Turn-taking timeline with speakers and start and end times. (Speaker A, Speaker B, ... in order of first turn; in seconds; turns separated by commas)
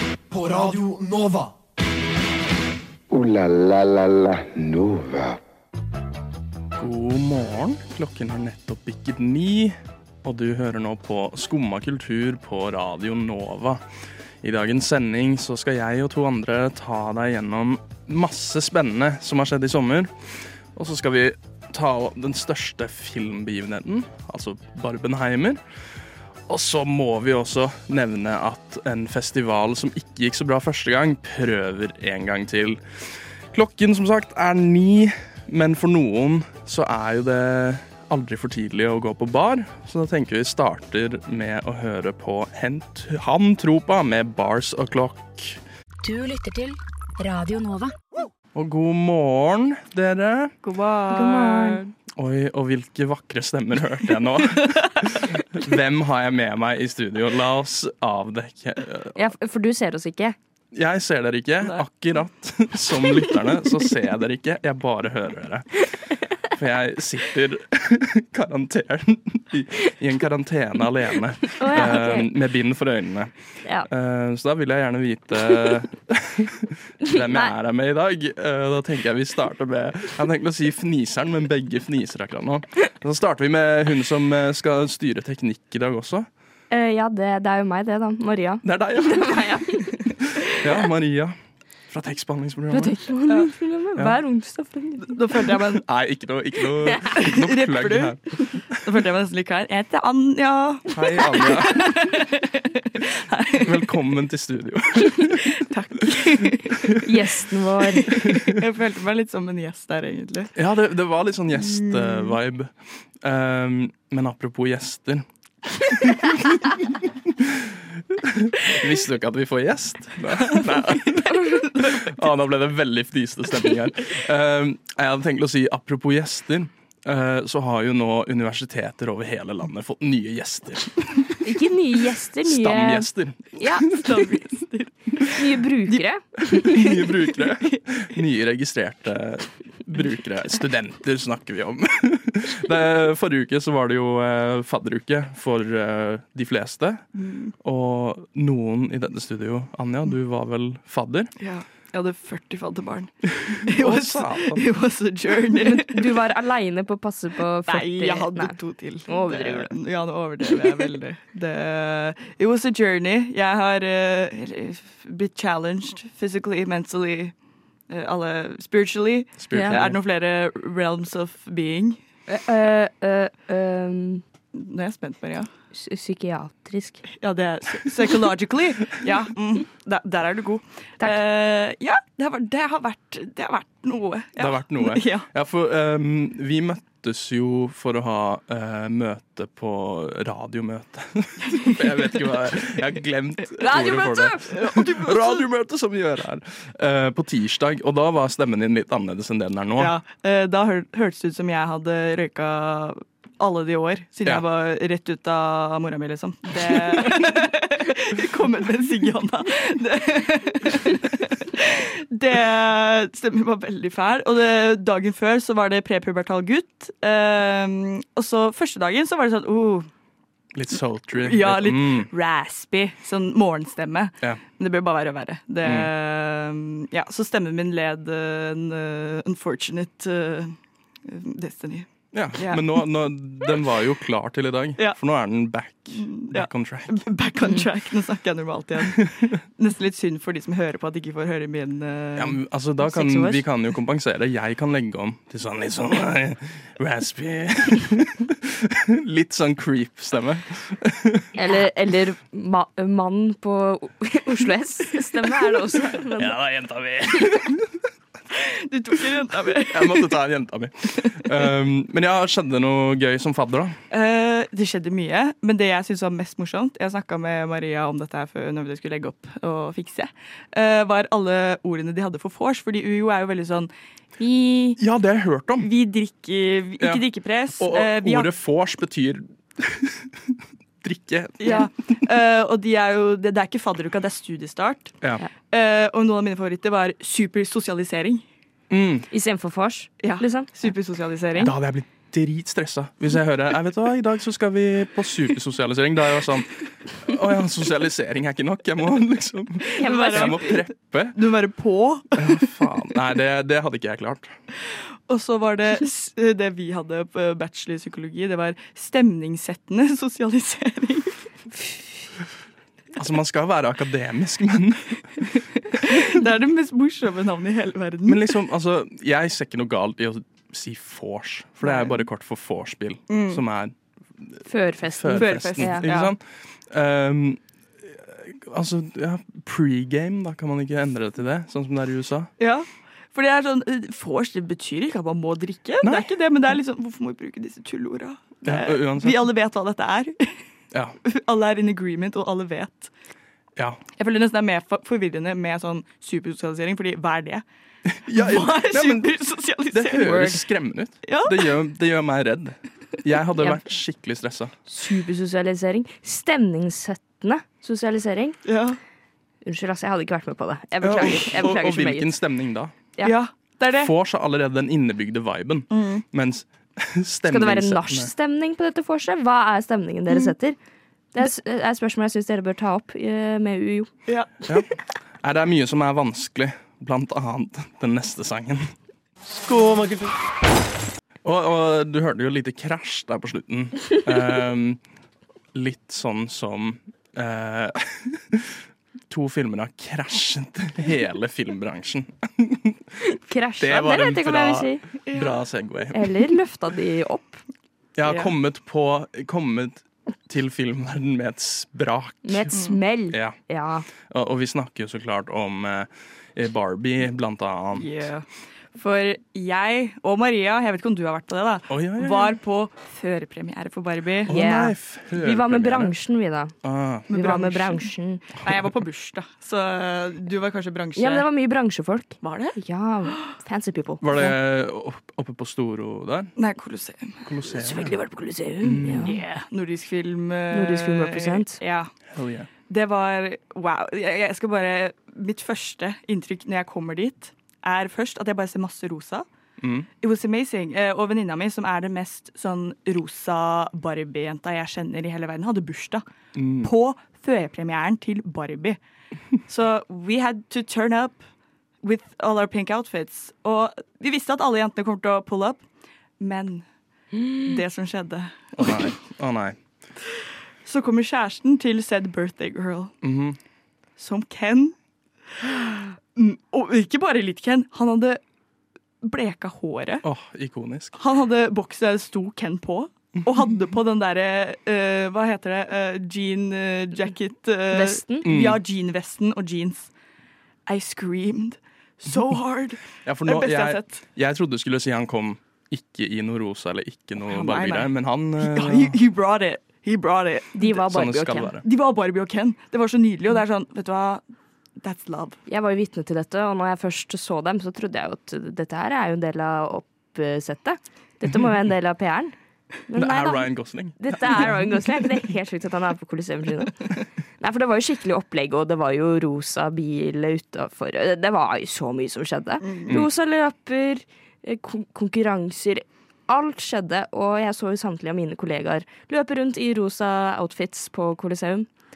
Speaker A: 0.3-1.5, Speaker B: 3.1-5.4, Speaker C: 6.8-13.8, Speaker C: 14.4-20.1, Speaker C: 20.8-25.6, Speaker C: 26.5-32.8, Speaker C: 33.5-45.6, Speaker D: 46.0-48.0, Speaker C: 48.5-50.5, Speaker E: 50.6-51.9, Speaker F: 51.1-51.8, Speaker C: 52.2-59.2, Speaker F: 59.1-60.4, Speaker C: 60.7-65.9, Speaker C: 66.4-73.3, Speaker F: 71.6-72.3, Speaker C: 73.9-86.3, Speaker F: 77.0-77.5, Speaker F: 86.7-90.1, Speaker C: 88.6-89.4, Speaker C: 90.4-91.4, Speaker C: 91.9-93.0, Speaker F: 92.7-95.5, Speaker E: 95.0-95.8, Speaker C: 95.7-98.4, Speaker E: 97.2-103.9, Speaker C: 100.9-101.9, Speaker C: 103.6-106.2, Speaker E: 105.5-107.1, Speaker F: 107.0-108.2, Speaker E: 108.0-110.5, Speaker C: 108.2-108.6, Speaker C: 110.5-115.3, Speaker E: 111.7-112.4, Speaker C: 115.8-131.5, Speaker E: 121.3-122.0, Speaker F: 131.4-134.0, Speaker C: 132.4-134.3, Speaker E: 133.9-136.0, Speaker F: 135.3-136.9, Speaker C: 136.4-147.0, Speaker E: 147.2-147.6, Speaker C: 147.6-151.3, Speaker E: 151.4-156.1, Speaker C: 153.6-154.6, Speaker F: 155.6-158.6, Speaker E: 157.7-167.3, Speaker F: 159.1-159.8, Speaker E: 167.9-172.0, Speaker C: 169.4-170.0, Speaker F: 169.5-169.8, Speaker F: 172.3-174.2, Speaker E: 174.5-175.5, Speaker F: 175.7-177.1, Speaker E: 177.2-185.3, Speaker C: 184.4-200.0, Speaker E: 193.6-195.5, Speaker F: 193.7-194.3, Speaker E: 199.8-219.9, Speaker C: 220.5-222.1, Speaker E: 221.2-232.8, Speaker C: 225.6-225.9, Speaker C: 232.1-237.0, Speaker E: 235.9-242.4, Speaker C: 242.2-251.3, Speaker F: 242.8-243.4, Speaker F: 251.3-256.4, Speaker C: 256.2-257.7, Speaker E: 258.3-260.2, Speaker C: 259.7-263.8, Speaker E: 261.1-261.4, Speaker E: 263.9-274.8, Speaker C: 274.8-275.7, Speaker E: 275.6-278.3, Speaker C: 277.6-281.7, Speaker E: 281.4-285.0, Speaker E: 285.5-288.2, Speaker C: 288.7-289.1, Speaker F: 289.1-290.5, Speaker E: 290.0-291.5, Speaker C: 291.4-301.2, Speaker E: 299.7-302.6, Speaker F: 299.8-300.4, Speaker C: 302.2-304.3, Speaker E: 304.7-311.2, Speaker C: 312.9-315.2, Speaker E: 315.7-318.4, Speaker C: 318.1-332.3, Speaker E: 321.6-322.0, Speaker E: 323.1-323.4, Speaker F: 324.5-325.9, Speaker E: 325.1-326.1, Speaker E: 332.4-340.4, Speaker C: 335.8-336.1, Speaker C: 338.4-339.2, Speaker E: 341.1-342.9, Speaker E: 344.0-347.4, Speaker C: 347.9-349.1, Speaker E: 348.1-350.5, Speaker C: 349.7-354.5, Speaker E: 351.0-351.5, Speaker F: 354.7-358.4, Speaker E: 358.5-358.8, Speaker F: 359.4-362.1, Speaker C: 360.8-362.8, Speaker E: 363.0-363.9, Speaker C: 363.7-368.1, Speaker E: 365.7-366.1, Speaker F: 367.3-370.6, Speaker F: 371.1-373.9, Speaker C: 375.2-378.7, Speaker A: 379.4-380.1, Speaker C: 381.2-384.8, Speaker C: 385.5-392.8, Speaker F: 393.1-394.8, Speaker C: 393.6-396.1, Speaker E: 395.1-395.4, Speaker F: 395.9-397.4, Speaker C: 398.0-403.4, Speaker E: 398.1-398.3, Speaker F: 402.2-403.9, Speaker E: 402.5-402.8, Speaker C: 404.0-408.0, Speaker E: 407.8-414.3, Speaker C: 411.7-412.4, Speaker C: 414.2-415.9, Speaker F: 414.3-416.6, Speaker C: 416.6-417.1, Speaker F: 417.1-418.3, Speaker E: 417.1-421.3, Speaker F: 421.0-424.4, Speaker E: 422.2-422.6, Speaker C: 424.0-426.3, Speaker E: 426.4-427.2, Speaker C: 427.2-427.9, Speaker F: 427.6-429.2, Speaker C: 428.6-429.2, Speaker E: 428.9-431.9, Speaker F: 430.5-431.6, Speaker C: 432.1-432.5, Speaker E: 432.7-439.3, Speaker C: 439.6-439.9, Speaker E: 440.0-446.0, Speaker C: 446.4-446.7, Speaker E: 446.6-448.8, Speaker E: 449.5-451.2, Speaker E: 451.8-455.6, Speaker E: 456.2-456.6, Speaker E: 457.3-458.9, Speaker C: 458.6-459.6, Speaker E: 460.1-462.9, Speaker C: 463.0-463.4, Speaker E: 464.0-464.8, Speaker E: 465.4-468.2, Speaker E: 469.0-470.0, Speaker C: 470.0-470.9, Speaker E: 471.0-479.9, Speaker F: 477.7-478.3, Speaker C: 478.2-478.6, Speaker E: 480.7-484.0, Speaker C: 483.1-489.0, Speaker E: 487.2-490.7, Speaker F: 490.6-491.5, Speaker C: 490.7-491.6, Speaker E: 491.6-494.2, Speaker E: 494.8-495.4, Speaker F: 495.5-502.3, Speaker F: 502.9-521.7, Speaker C: 502.9-504.6, Speaker E: 512.6-512.9